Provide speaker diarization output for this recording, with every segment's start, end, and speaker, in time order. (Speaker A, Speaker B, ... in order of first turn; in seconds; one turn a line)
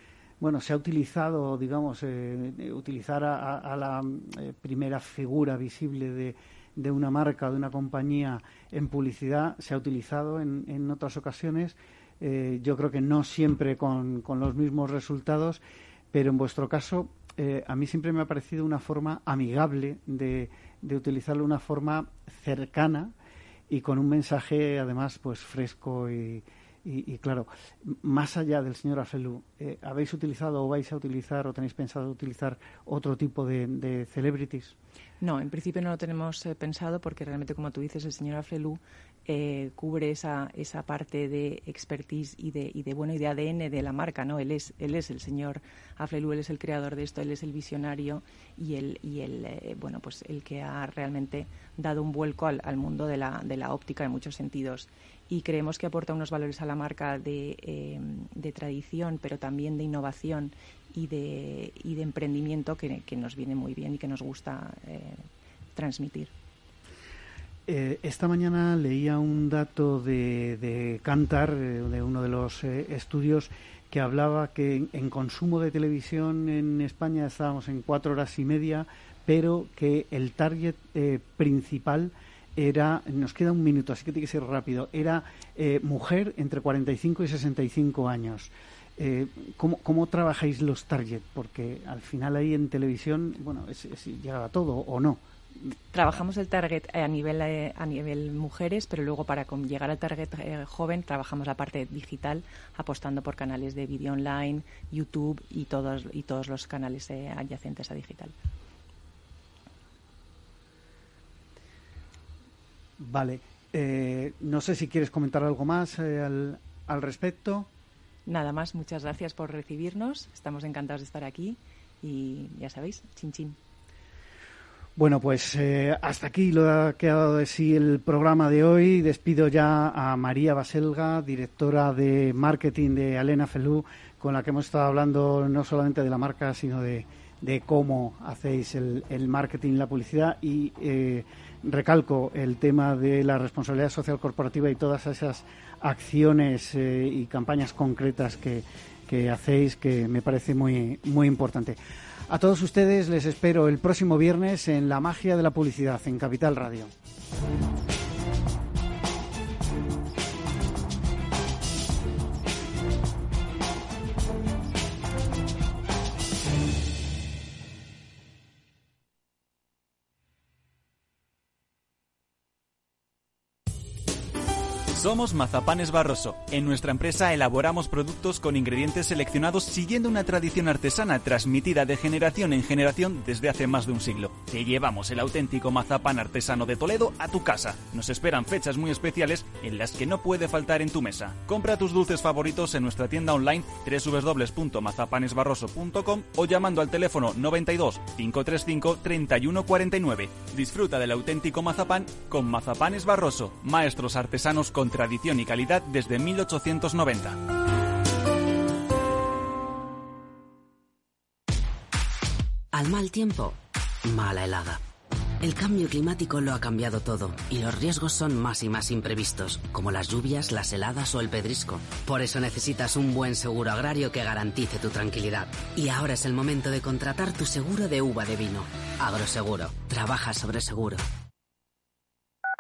Speaker A: 0.4-23.1
Speaker A: 23.7-34.8
Speaker B: 35.2-66.3
Speaker A: 67.7-95.2
Speaker B: 95.9-108.3
Speaker A: 113.0-117.7
Speaker B: 118.3-123.6
Speaker A: 125.0-156.9
Speaker C: 174.9-207.5
Speaker D: 212.7-214.8
Speaker D: 215.4-231.1